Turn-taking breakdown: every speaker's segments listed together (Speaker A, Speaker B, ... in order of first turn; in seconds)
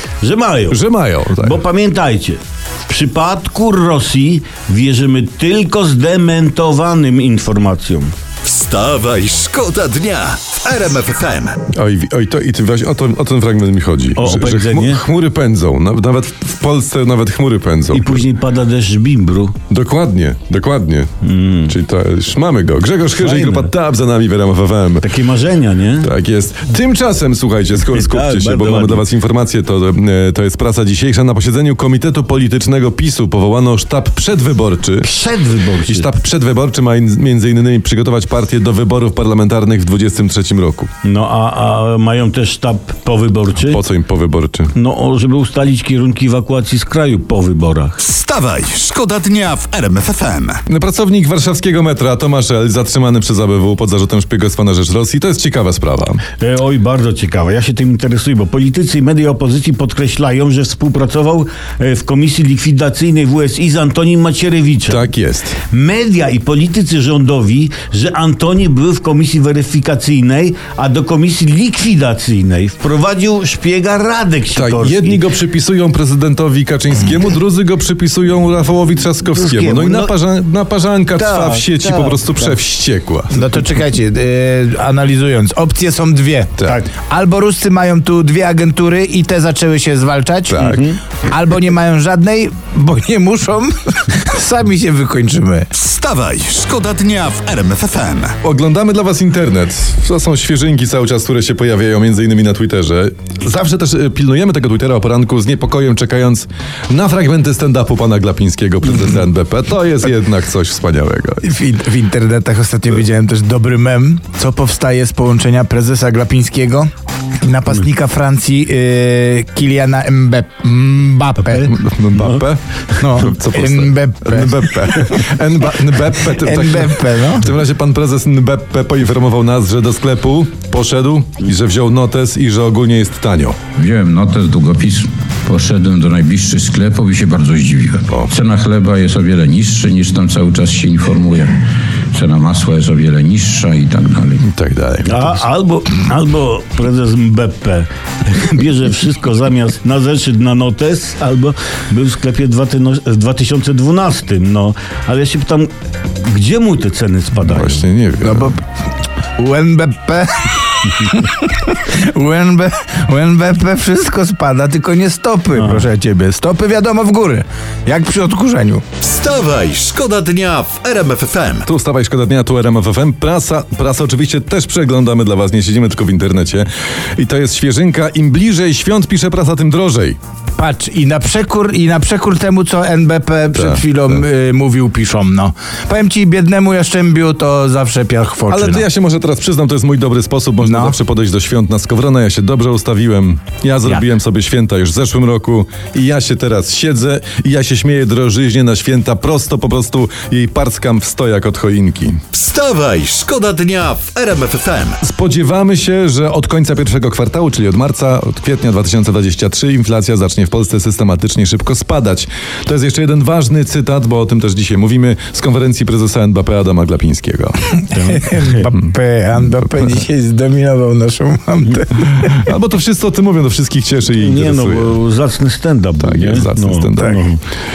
Speaker A: 0.2-0.8, 1.4-8.1, 14.2-15.0, 17.9-19.5, 21.2-21.7, 23.1-23.7, 25.0-26.1, 27.8-29.0, 35.0-36.1, 41.0-43.8, 44.7-48.0, 56.4-65.1, 65.7-75.2, 79.3-80.1, 81.1-82.5, 90.5-91.0, 145.1-155.7, 156.2-157.8, 165.5-165.8, 217.9-218.7, 224.2-227.4
Speaker B: 0.7-1.6, 11.7-18.2, 19.7-21.1, 21.6-25.1, 26.0-35.1, 35.9-40.9, 43.6-44.7, 50.7-56.2, 64.9-65.6, 74.5-83.4, 90.5-90.8, 98.4-111.4, 121.5-133.6, 144.4-145.4, 157.4-158.6, 171.7-180.2, 183.5-184.2, 188.5-202.2, 205.0-217.6, 222.2-225.0, 226.0-227.2
Speaker C: 8.4-11.6, 48.0-50.6, 95.7-98.3, 169.0-171.7, 202.3-205.0
Speaker D: 83.3-90.7, 91.2-95.7, 111.4-116.9, 117.4-121.7, 123.0-125.1, 126.3-127.5, 158.2-158.6, 159.4-168.8, 180.6-188.8, 190.6-190.9, 217.8-222.5
Speaker E: 133.8-144.4